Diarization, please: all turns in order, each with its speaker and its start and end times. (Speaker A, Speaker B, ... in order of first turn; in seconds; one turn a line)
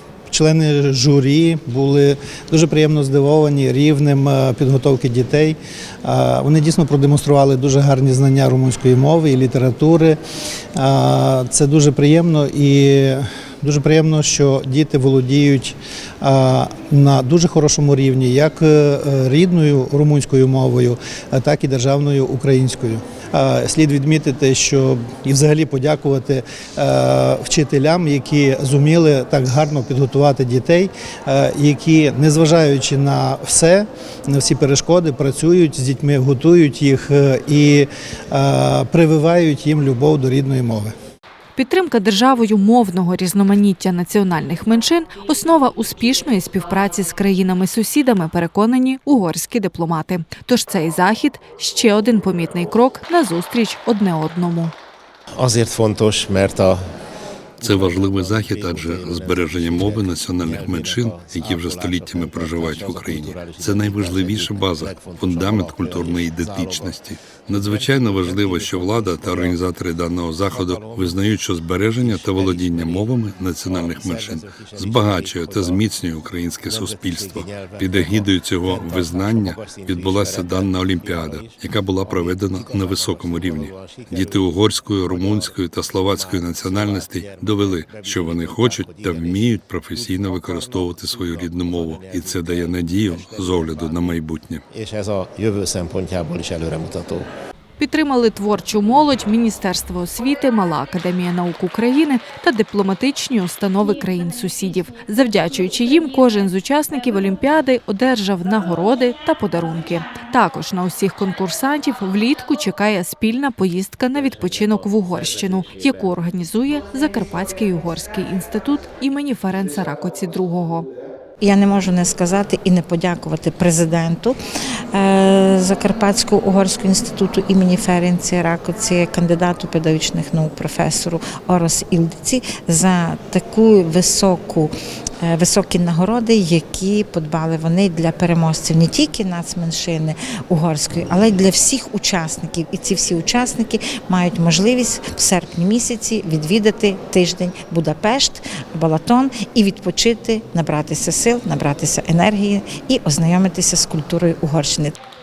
Speaker A: 0.3-10.2
Speaker A: 10.8-40.9
Speaker B: 41.6-54.7
Speaker C: 55.4-56.8
Speaker C: 57.6-94.2
Speaker D: 57.6-94.6
Speaker C: 94.7-97.3
Speaker B: 97.8-120.9
Speaker E: 121.4-124.4
Speaker E: 124.9-154.9